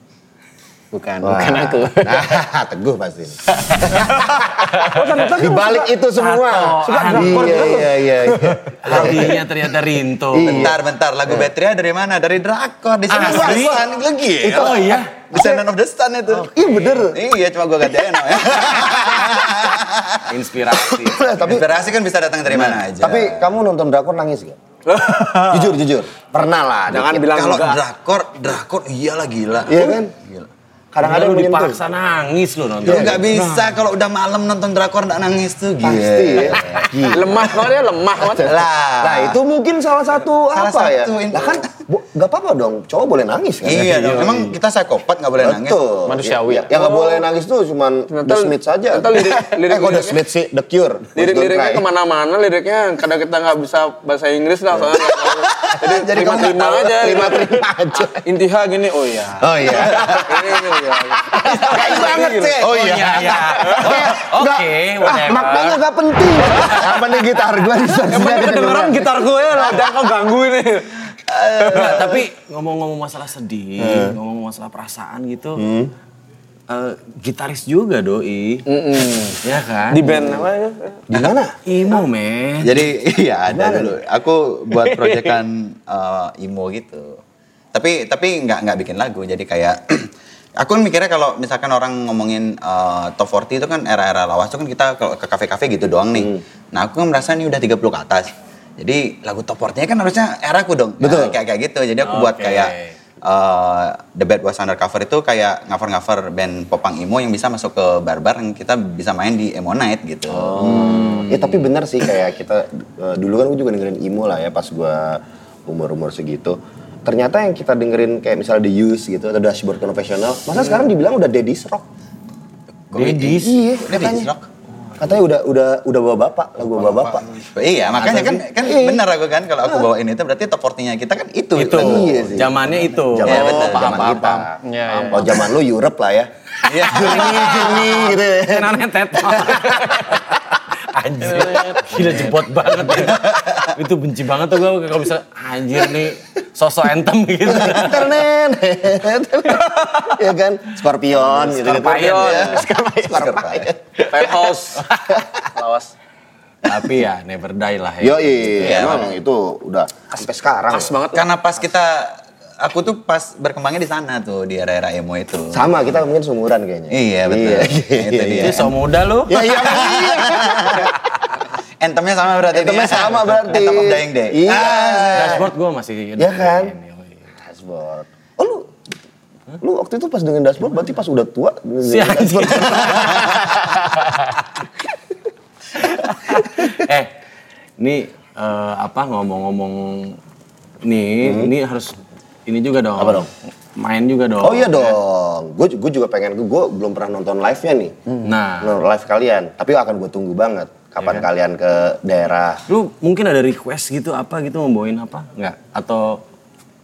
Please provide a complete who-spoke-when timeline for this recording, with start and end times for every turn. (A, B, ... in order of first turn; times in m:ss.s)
0:00.9-0:02.4 A
0:01.2-0:09.5 B
0:03.5-0:05.4 A
0:05.7-0:10.7 C
0:07.0-0:07.8 A
0:10.3-0:11.5 B
0:10.4-0:16.5 D
0:13.1-0:13.8 C
0:13.1-0:15.6 B
0:14.5-0:15.2 C
0:16.3-0:17.2 B
0:16.6-0:17.0 C
0:17.1-0:20.3 D
0:18.3-0:19.7 B
0:20.3-0:21.3 C
0:20.7-0:21.8 B
0:21.4-0:23.5 D
0:22.9-0:24.6 B
0:24.9-0:25.7 E
0:25.3-0:27.4 B
0:26.9-0:27.8 E
0:27.2-0:30.5 D
0:29.7-0:30.1 B
0:30.9-0:31.8 B
0:31.0-0:33.8 C
0:32.8-0:33.3 B
0:32.8-0:37.1 D
0:35.8-0:37.7 B
0:37.1-0:38.6 E
0:38.2-0:44.2 B
0:38.3-0:39.4 D
0:40.5-0:41.7 D
0:43.6-0:45.8 D
0:43.7-0:44.6 C
0:45.4-0:51.8 B
0:46.1-0:46.8 A
0:46.7-0:47.2 E
0:48.1-0:50.2 E
0:51.2-1:02.6 E
0:55.4-0:58.2 B
0:59.4-1:09.0 B
0:59.7-1:00.3 D
1:01.8-1:03.4 D
1:02.0-1:05.8 C
1:06.5-1:07.0 C
1:08.1-1:11.0 E
1:11.6-1:15.6 C
1:11.8-1:12.1 B
1:13.8-1:14.2 B
1:15.6-1:15.9 B
1:16.7-1:18.6 C
1:18.7-1:21.0 E
1:19.4-1:20.2 C
1:21.1-1:21.6 B
1:21.7-1:22.9 C
1:22.6-1:27.2 D
1:23.5-1:24.0 B
1:25.0-1:25.3 A
1:27.7-1:50.8 D
1:41.0-1:41.4 B
1:42.0-1:43.0 C
1:50.3-1:51.6 C
1:50.6-2:01.9 B
2:02.9-2:03.7 C
2:02.9-2:04.3 B
2:03.8-2:04.4 D
2:05.0-2:07.4 B
2:07.4-2:12.2 D
2:07.9-2:09.0 B
2:11.6-2:15.4 C
2:11.6-2:14.6 B
2:13.2-2:14.1 D
2:14.6-2:15.4 A
2:15.1-2:20.2 B
2:16.6-2:17.8 D
2:16.9-2:28.2 C
2:21.2-2:22.2 A
2:22.9-2:23.7 D
2:27.4-2:34.0 B
2:31.3-2:32.4 C
2:31.7-2:32.6 E
2:32.3-2:33.7 D
2:32.4-2:33.4 A
2:34.0-2:34.3 A
2:34.1-2:34.9 E
2:35.4-2:35.9 E
2:36.6-2:38.7 C
2:38.0-2:41.0 B
2:38.6-2:39.1 D
2:40.7-2:41.3 E
2:41.1-2:45.7 D
2:45.5-2:48.7 B
2:46.9-2:48.7 D
2:48.4-2:50.0 C
2:49.3-2:50.9 B
2:49.5-2:50.9 D
2:51.8-2:55.4 D
2:52.5-2:55.5 B
2:55.1-2:57.3 C
2:56.2-2:56.7 B
2:57.4-2:58.7 B
2:59.6-3:03.6 B
3:01.8-3:04.4 C
3:05.9-3:07.1 C
3:07.8-3:10.2 C
3:10.8-3:15.0 C
3:11.2-3:11.5 B
3:13.0-3:13.3 B
3:14.4-3:18.0 B
3:18.2-3:18.8 C
3:18.6-3:22.6 B
3:21.0-3:21.3 C
3:22.7-3:26.2 C